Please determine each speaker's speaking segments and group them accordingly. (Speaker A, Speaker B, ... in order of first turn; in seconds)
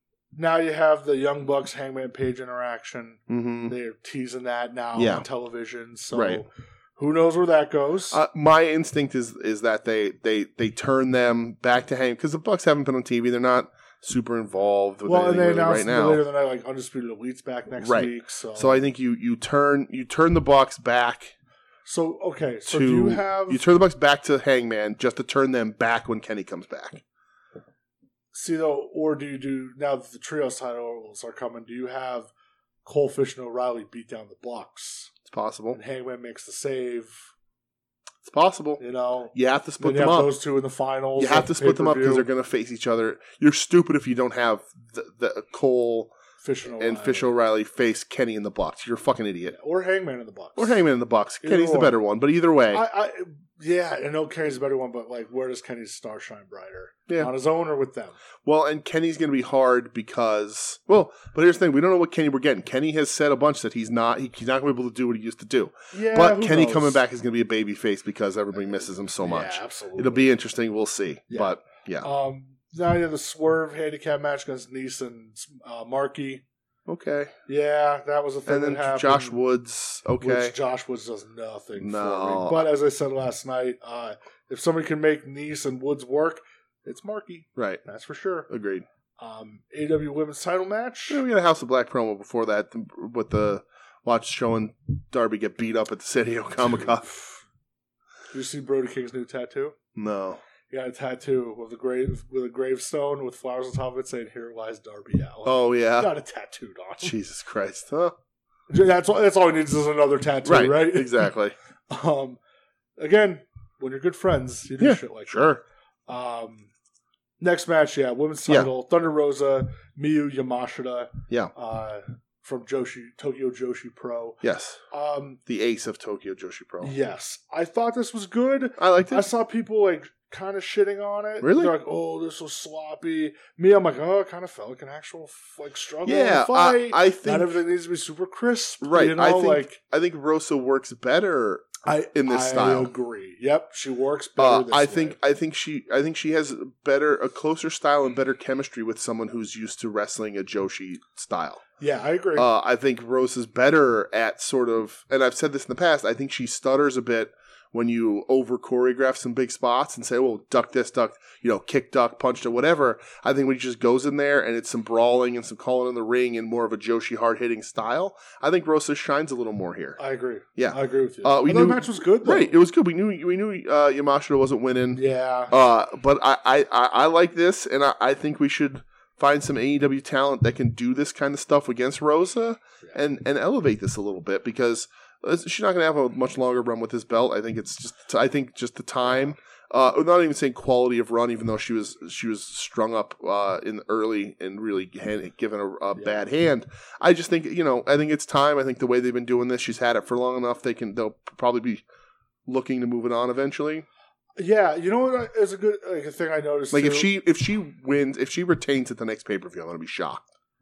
Speaker A: 0.3-8.2, 15.1-18.8, 21.9-23.6, 28.3-32.3, 32.9-35.1, 35.7-37.3, 38.8-42.3, 46.4-47.3, 49.5-50.8, 51.4-52.0, 52.7-58.2, 65.9-67.0, 69.2-70.3, 71.3-76.4, 77.5-79.4, 80.2-88.5, 89.2-91.2, 98.3-99.8, 100.7-107.2, 108.7-111.3, 111.9-112.4, 113.0-116.7, 117.4-125.4, 126.8-139.8, 141.8-145.2, 151.8-152.5, 170.0-172.5, 174.9-175.5, 204.4-207.1
Speaker B: 3.3-3.7, 5.0-5.2, 6.1-6.4, 8.1-16.2, 17.8-21.3, 22.7-27.0, 35.3-35.8, 38.2-38.8, 39.3-40.3, 41.2-46.1, 46.8-49.6, 50.6-52.8, 58.5-72.1, 76.9-77.3, 78.5-80.5, 81.8-82.7, 87.6-87.8, 88.5-88.8, 91.1-97.2, 100.0-100.4, 105.5-106.1, 107.0-108.2, 110.5-111.5, 114.8-115.6, 124.4-124.8, 125.5-126.9, 128.8-129.3, 131.4-131.7, 136.1-137.5, 138.8-142.9, 144.4-151.6, 152.4-170.0, 170.6-201.8, 202.5-203.9, 206.7-210.3